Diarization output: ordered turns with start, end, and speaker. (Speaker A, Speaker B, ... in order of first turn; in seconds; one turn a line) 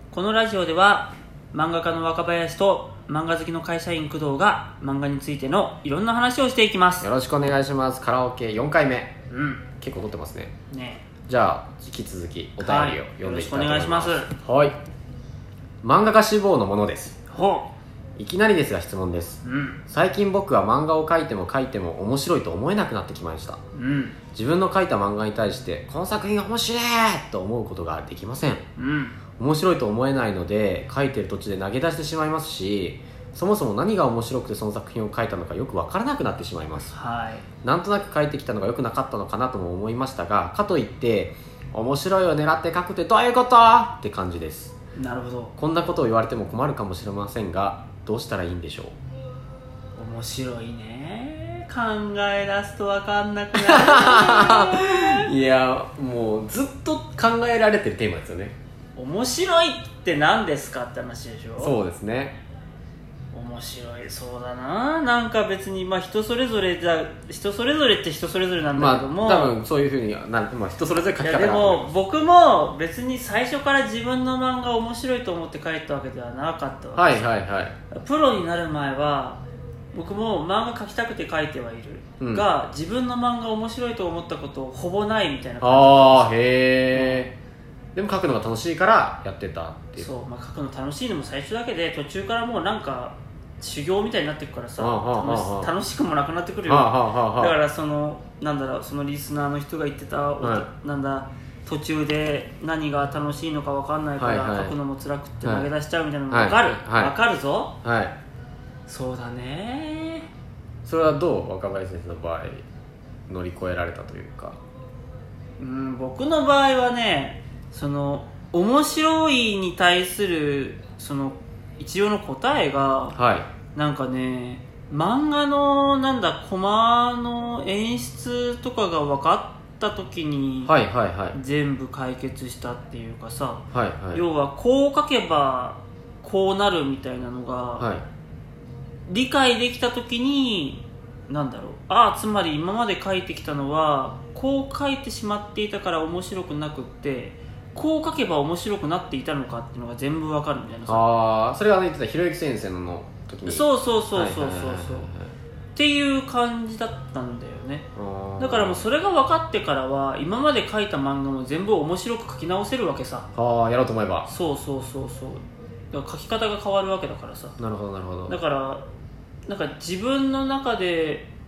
Speaker A: 0.1-7.1
Speaker B: 7.0-9.1
Speaker A: 9.3-9.6
Speaker B: 9.8-10.5
Speaker A: 10.7-11.0
Speaker B: 11.3-14.8
Speaker A: 12.6-14.3
Speaker B: 15.8-17.2
Speaker A: 17.3-17.7
Speaker B: 18.2-23.6
Speaker A: 19.4-19.8
Speaker A: 23.8-24.2
Speaker B: 24.4-28.6
Speaker A: 28.8-29.2
Speaker B: 29.4-36.9
Speaker A: 36.9-37.5
Speaker B: 37.6-44.7
Speaker A: 45.0-45.5
Speaker B: 45.6-48.9
Speaker A: 50.0-55.3
Speaker B: 53.6-58.6
Speaker A: 59.0-61.8
Speaker B: 61.6-62.4
Speaker A: 63.3-69.6
Speaker B: 68.8-71.9
Speaker A: 71.2-77.2
Speaker B: 77.0-77.7
Speaker A: 77.9-79.4
Speaker A: 79.9-86.3
Speaker B: 82.2-82.5
Speaker B: 85.6-87.3
Speaker A: 86.9-87.3
Speaker B: 88.0-90.1
Speaker A: 90.0-107.8
Speaker B: 94.8-95.7
Speaker B: 96.7-97.5
Speaker B: 100.4-100.7
Speaker B: 104.2-104.8
Speaker B: 106.3-107.2
Speaker B: 107.8-108.2
Speaker A: 108.9-110.3
Speaker B: 110.8-112.7
Speaker B: 113.3-114.6
Speaker A: 115.6-123.2
Speaker B: 123.2-123.5
Speaker A: 123.7-130.7
Speaker B: 130.7-131.4
Speaker A: 131.3-137.9
Speaker B: 133.7-134.2
Speaker B: 137.8-138.1
Speaker A: 139.1-151.0
Speaker B: 150.9-155.3
Speaker A: 153.5-155.1
Speaker A: 155.8-157.9
Speaker B: 158.0-158.9
Speaker A: 158.4-163.3
Speaker B: 163.3-164.3
Speaker A: 164.3-167.6
Speaker B: 167.6-168.3
Speaker A: 168.3-168.8
Speaker A: 169.5-171.3